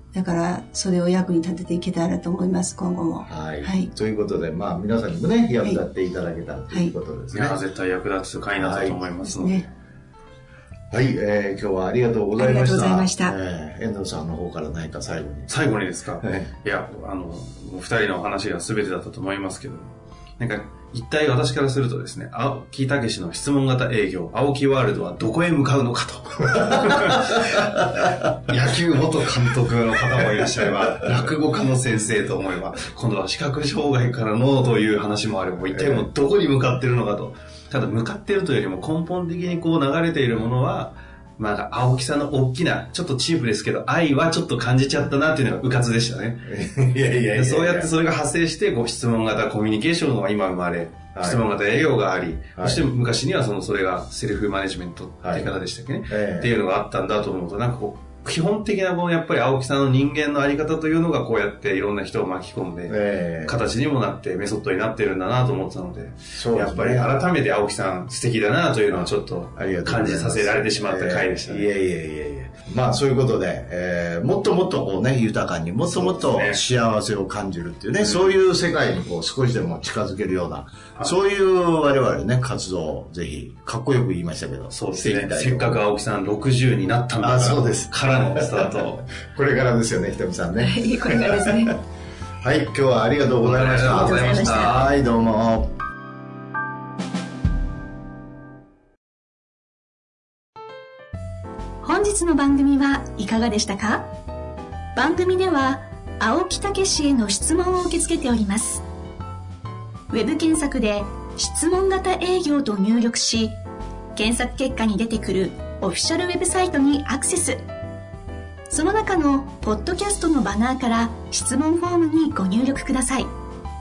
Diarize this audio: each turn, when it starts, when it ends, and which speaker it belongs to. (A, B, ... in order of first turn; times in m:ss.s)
0:00.1-0:03.9 A
0:03.2-0:07.6 B
0:07.3-0:09.7 C
0:08.6-0:09.0 B
0:09.2-0:09.7 A
0:10.9-0:15.5 B
0:12.4-0:13.4 A
0:15.5-0:46.4 C
0:16.2-0:16.5 B
0:26.6-0:28.6 B
0:30.1-0:31.4 B
0:35.7-0:36.1 B
0:46.4-0:47.9 B
0:47.3-1:11.7 C
0:51.2-0:51.4 B
0:55.2-0:55.5 B
0:56.1-0:56.5 B
1:02.9-1:03.6 B
1:06.4-1:07.2 B
1:08.9-1:25.8 B
1:16.1-1:16.6 C
1:18.0-1:18.3 C
1:24.7-1:29.1 C
1:27.2-1:31.7 B
1:30.6-1:31.8 A
1:32.4-1:35.8 B
1:33.4-1:35.0 C
1:33.9-1:34.7 D
1:41.8-1:44.1 D
1:45.0-1:48.8 D
1:50.1-1:53.6 D
1:54.2-1:57.6 D
1:58.7-2:03.3 D